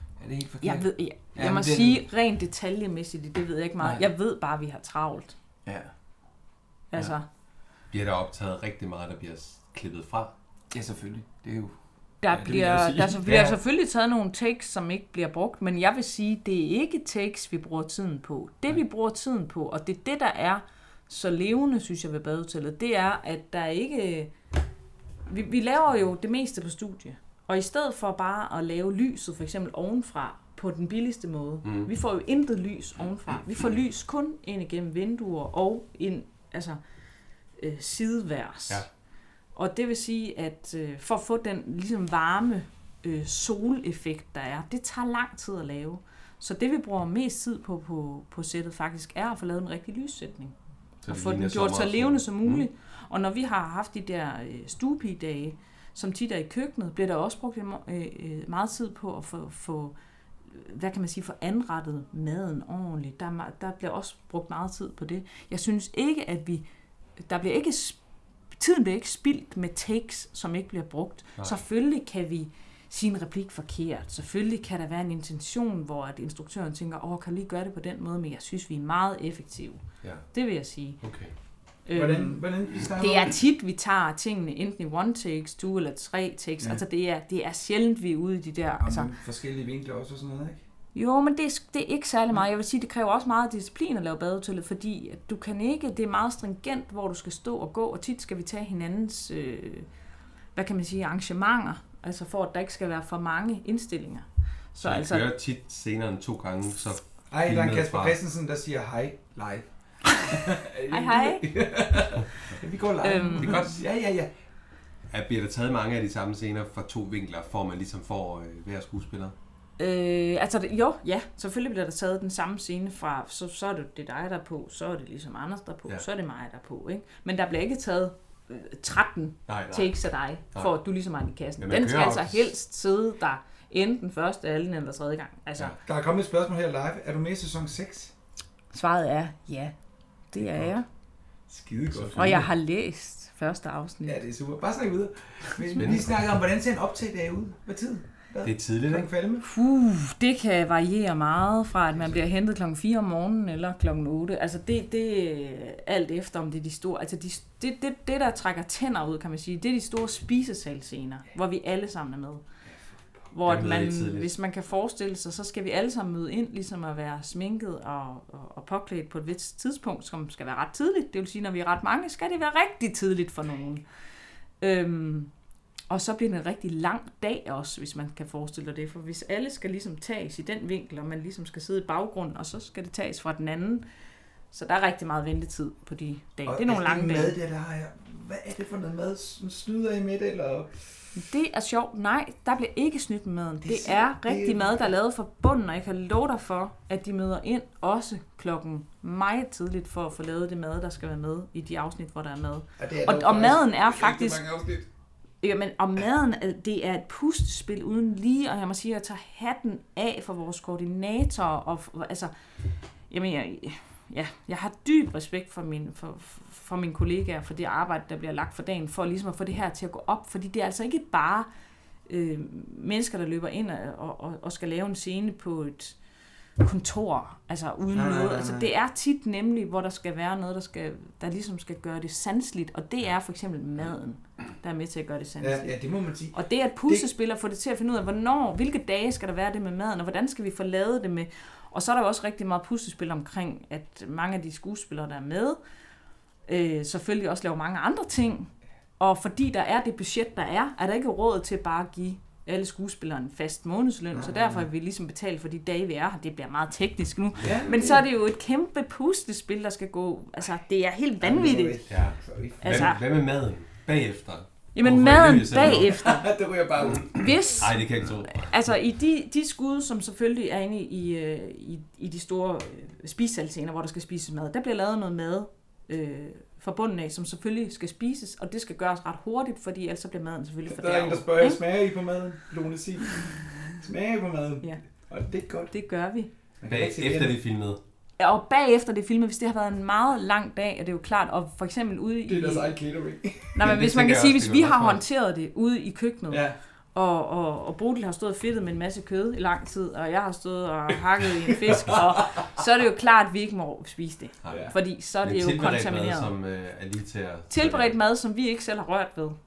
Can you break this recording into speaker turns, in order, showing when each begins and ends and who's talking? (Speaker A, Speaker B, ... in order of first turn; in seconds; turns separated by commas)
Speaker A: 0.2-2.0, Speaker B: 0.6-5.3, Speaker A: 3.8-4.1, Speaker A: 5.7-5.9, Speaker B: 6.9-7.2, Speaker C: 7.9-10.3, Speaker A: 10.7-11.8, Speaker B: 12.2-24.3, Speaker A: 12.3-13.6, Speaker B: 25.3-36.8, Speaker C: 31.6-31.9, Speaker B: 37.6-38.8, Speaker B: 39.5-50.5, Speaker C: 51.0-52.6, Speaker B: 51.1-59.9, Speaker B: 60.5-66.7, Speaker B: 67.2-68.0, Speaker B: 68.6-79.8, Speaker B: 80.3-81.0, Speaker C: 81.0-81.3, Speaker B: 81.9-89.1, Speaker A: 81.9-83.4, Speaker A: 88.8-90.6, Speaker B: 91.0-99.9, Speaker B: 100.5-105.3, Speaker C: 104.8-108.2, Speaker A: 107.3-114.3, Speaker B: 110.9-111.5, Speaker B: 113.0-113.8, Speaker C: 115.1-119.3, Speaker B: 119.8-135.8, Speaker C: 129.5-129.9, Speaker C: 131.6-132.5, Speaker A: 135.8-138.1, Speaker B: 138.7-139.7, Speaker B: 140.3-140.9, Speaker A: 141.5-142.5, Speaker C: 141.9-142.4, Speaker B: 142.2-144.2, Speaker A: 144.1-149.5, Speaker C: 145.7-146.1, Speaker C: 148.4-149.1, Speaker B: 149.4-162.4, Speaker B: 163.3-173.8, Speaker C: 163.4-164.3, Speaker B: 174.6-175.3, Speaker B: 175.9-183.8, Speaker B: 184.5-187.3, Speaker A: 186.5-190.8, Speaker B: 191.2-204.4, Speaker A: 193.6-194.8, Speaker A: 202.8-204.9, Speaker B: 205.4-212.3, Speaker B: 213.1-221.5, Speaker B: 222.1-226.0, Speaker B: 226.6-235.7, Speaker A: 227.9-228.7, Speaker A: 235.4-237.1, Speaker B: 236.3-245.6, Speaker B: 246.5-261.8, Speaker A: 254.1-254.7, Speaker A: 257.4-258.0, Speaker A: 261.2-262.9, Speaker C: 261.9-266.1, Speaker B: 262.6-263.0, Speaker B: 264.8-266.2, Speaker A: 265.6-267.3, Speaker C: 266.8-268.6, Speaker B: 267.1-281.6, Speaker A: 280.7-285.7, Speaker B: 285.7-286.3, Speaker A: 286.6-287.4, Speaker C: 286.6-287.8, Speaker B: 288.2-292.7, Speaker A: 292.3-293.6, Speaker B: 293.6-306.3, Speaker C: 293.6-295.0, Speaker A: 296.3-296.6, Speaker A: 301.7-302.0, Speaker C: 304.4-308.0, Speaker A: 304.5-304.8, Speaker B: 307.5-309.4